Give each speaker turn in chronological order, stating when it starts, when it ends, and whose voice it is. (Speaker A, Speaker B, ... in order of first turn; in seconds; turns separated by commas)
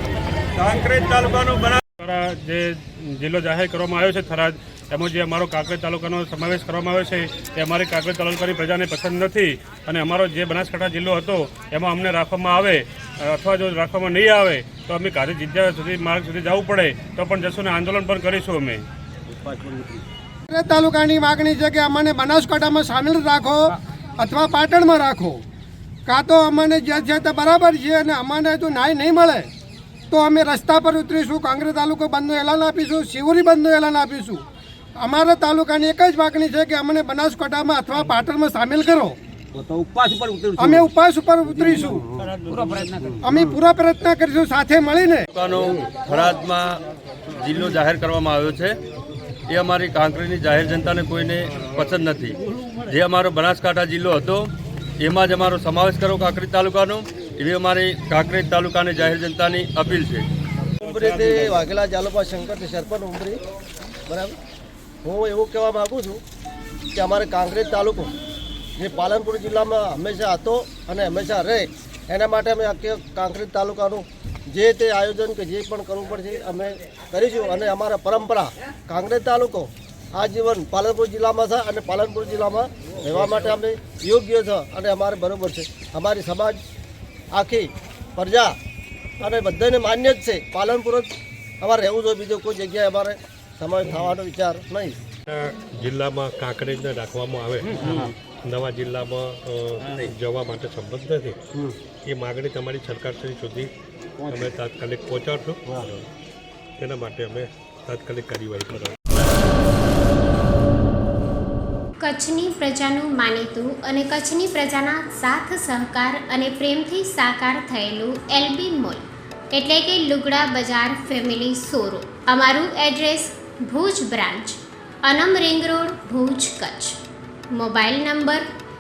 Speaker A: 0.6-1.8, Speaker B: 1.8-18.9, Speaker C: 20.5-25.4, Speaker C: 26.1-29.5, Speaker C: 30.1-34.4, Speaker C: 35.0-39.2, Speaker C: 40.6-42.0, Speaker C: 43.2-45.2, Speaker A: 45.3-46.8, Speaker A: 47.4-48.8, Speaker A: 49.5-60.3, Speaker D: 60.8-63.4, Speaker D: 64.1-64.4, Speaker D: 65.0-66.2, Speaker D: 67.0-68.1, Speaker D: 68.8-86.6, Speaker D: 87.3-88.6, Speaker D: 89.2-95.0, Speaker E: 95.3-101.4, Speaker E: 102.0-103.7, Speaker E: 104.3-106.1, Speaker E: 106.8-109.0, Speaker F: 112.0-127.0, Speaker F: 127.5-128.4